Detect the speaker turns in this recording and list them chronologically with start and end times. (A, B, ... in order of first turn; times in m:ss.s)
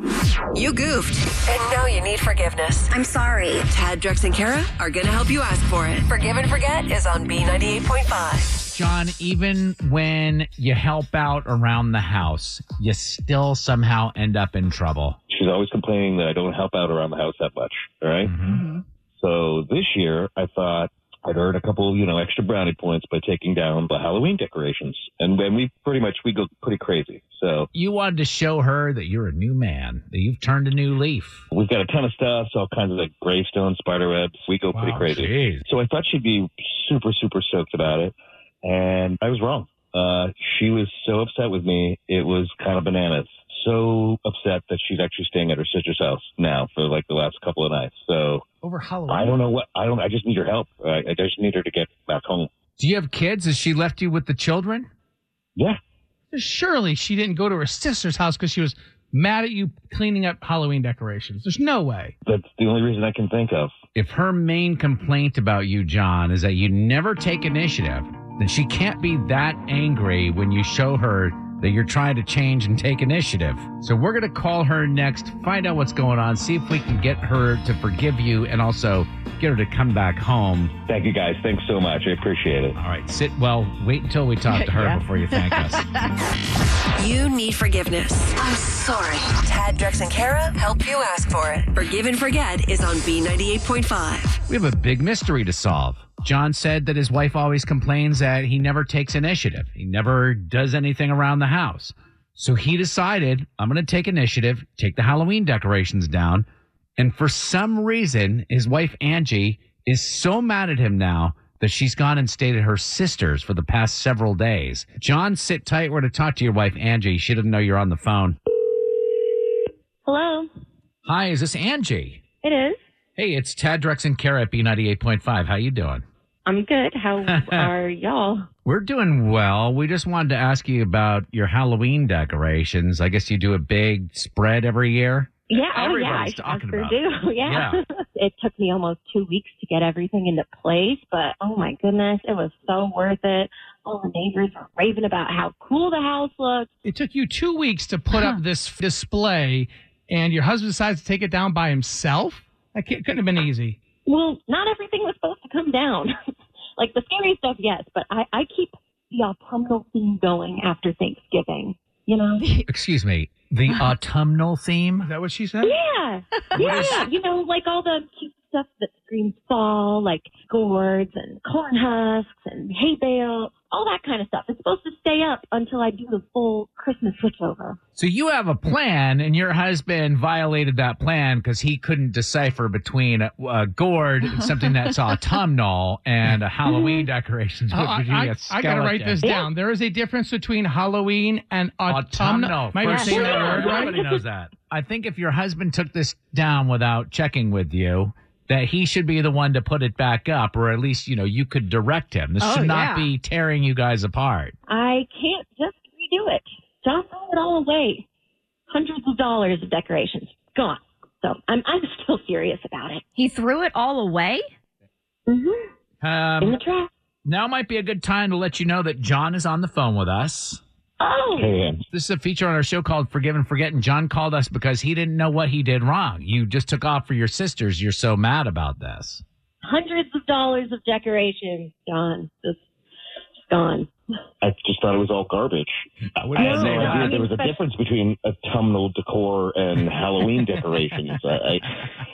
0:00.5-0:03.0 A
0:02.9-0:03.6 B
0:03.5-0:08.5 A
0:08.6-0:15.2 C
0:15.3-0:18.3 D
0:18.2-0:18.6 C
0:18.5-0:18.8 B
0:19.2-0:27.7 D
0:27.7-0:31.4 C
0:31.5-0:48.5 D
0:34.8-0:35.7 C
0:48.6-0:49.4 E
0:49.1-0:52.5 D
0:52.8-0:54.9 C
0:56.3-1:02.2 E
1:02.2-1:03.7 D
1:04.0-1:20.8 C
1:20.9-1:22.8 D
1:22.8-1:25.9 C
1:24.5-1:25.0 B
1:27.0-1:34.4 A
1:34.5-1:46.5 C
1:47.0-1:58.4 C
2:00.0-2:00.5 F
2:01.0-2:02.2 C
2:02.4-2:02.8 F
2:03.2-2:06.0 C
2:06.5-2:08.5 F
2:07.2-2:07.7 C
2:08.6-2:17.8 C
2:15.5-2:26.7 F
2:26.8-2:33.8 E
2:34.1-2:36.1 F
2:36.8-2:42.5 F
2:42.4-2:42.7 B
2:42.7-2:45.1 C
2:45.0-2:45.8 E
2:45.6-2:57.8 F
2:46.5-2:47.1 C
2:58.0-3:09.2 C
3:07.7-3:13.9 E
3:09.2-3:09.5 F
3:11.9-3:24.6 C
3:12.9-3:14.2 F
3:22.4-3:23.1 B
3:24.7-3:28.1 F
3:28.7-3:33.0 F
3:33.2-3:34.4 B
3:35.3-3:35.7 F
3:36.0-3:36.6 C
3:36.4-3:36.9 F
3:37.2-3:40.6 C
3:41.0-3:41.6 F
3:41.3-3:41.8 D
3:41.9-3:49.2 C
3:49.6-3:52.6 F
3:53.5-3:53.9 F
3:54.4-4:01.7 D
3:56.4-3:57.0 E
3:56.4-3:57.5 F